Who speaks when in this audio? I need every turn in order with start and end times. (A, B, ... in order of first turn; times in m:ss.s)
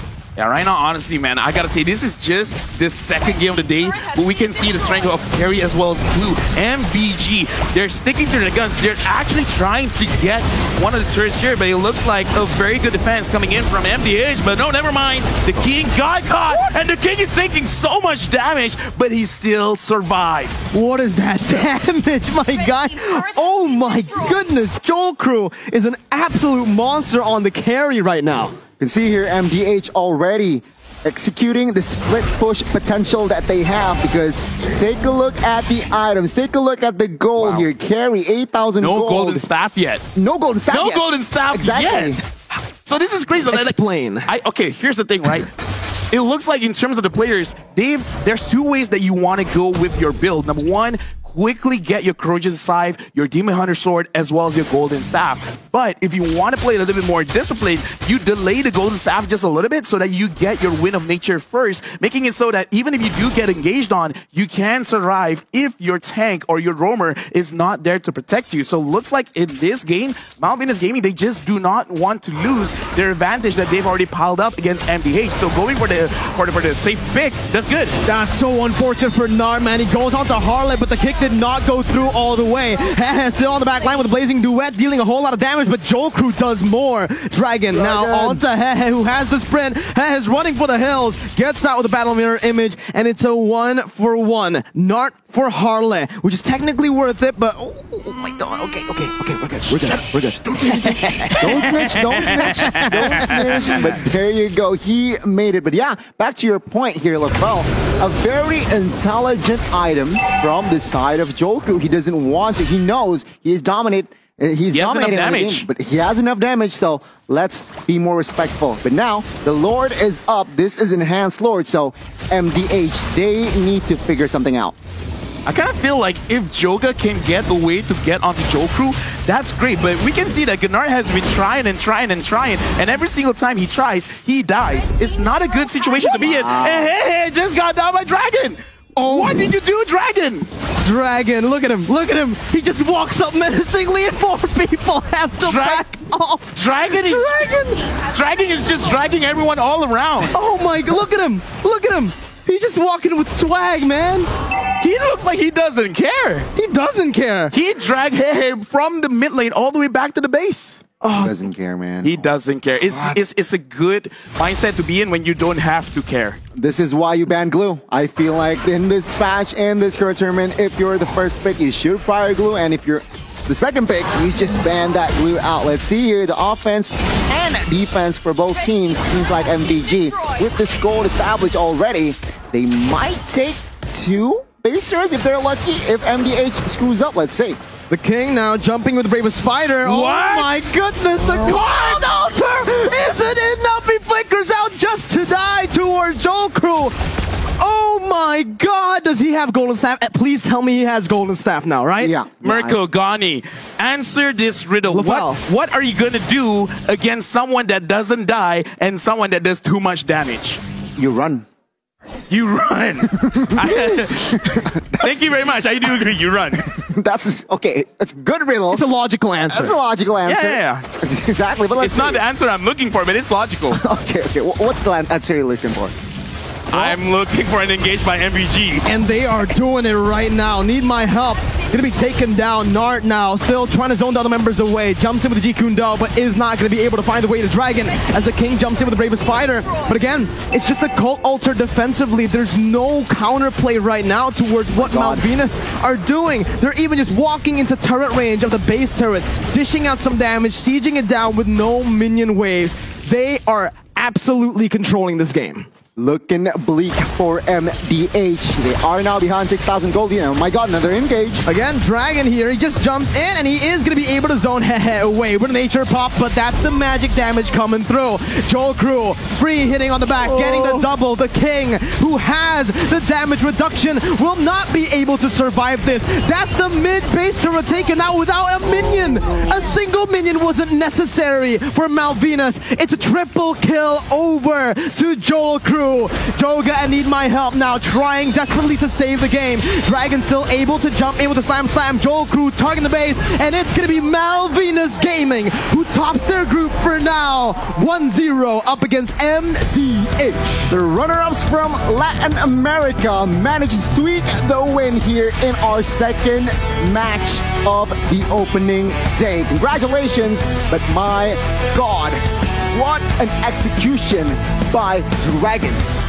0:00.4-0:20.7 A
0:20.7-0:28.6 B
0:28.8-0:39.4 C
0:37.4-0:37.7 A
0:38.8-0:40.0 A
0:40.2-0:42.2 C
0:40.7-0:42.2 A
0:42.9-0:45.5 A
0:43.5-0:44.3 B
0:46.1-1:18.0 A
1:18.0-1:43.6 B
1:27.7-1:28.4 C
1:39.7-1:43.8 A
1:41.4-2:04.8 C
1:54.7-1:55.7 A
2:05.4-2:20.5 A
2:16.1-2:16.9 C
2:19.0-2:19.5 B
2:20.8-2:28.0 B
2:25.4-2:25.8 A
2:26.5-2:27.4 A
2:27.9-2:30.4 A
2:30.3-2:34.3 B
2:34.8-2:36.5 A
2:36.5-2:37.5 B
2:37.5-2:40.8 A
2:41.0-2:41.4 B
2:41.1-2:42.3 C
2:42.0-2:46.4 A
2:42.9-2:43.2 C
2:46.5-3:07.6 C
3:07.9-3:16.9 B
3:09.8-3:10.7 A
3:11.2-3:12.2 A
3:17.6-3:22.1 B
3:22.0-3:22.8 C
3:22.4-3:30.6 A
3:24.9-3:25.4 B
3:31.0-3:31.4 C
3:32.3-3:36.7 A
3:33.2-3:35.2 C
3:36.6-3:38.8 C
3:38.7-3:39.8 B
3:39.5-3:42.2 C
3:40.2-3:40.8 A
3:41.8-3:43.8 A
3:43.7-3:45.9 C
3:46.7-3:48.9 A
3:48.8-4:15.7 B
4:04.8-4:05.2 C
4:16.0-4:21.4 C
4:21.4-5:00.7 B
4:30.5-4:30.8 C
5:00.7-5:15.8 C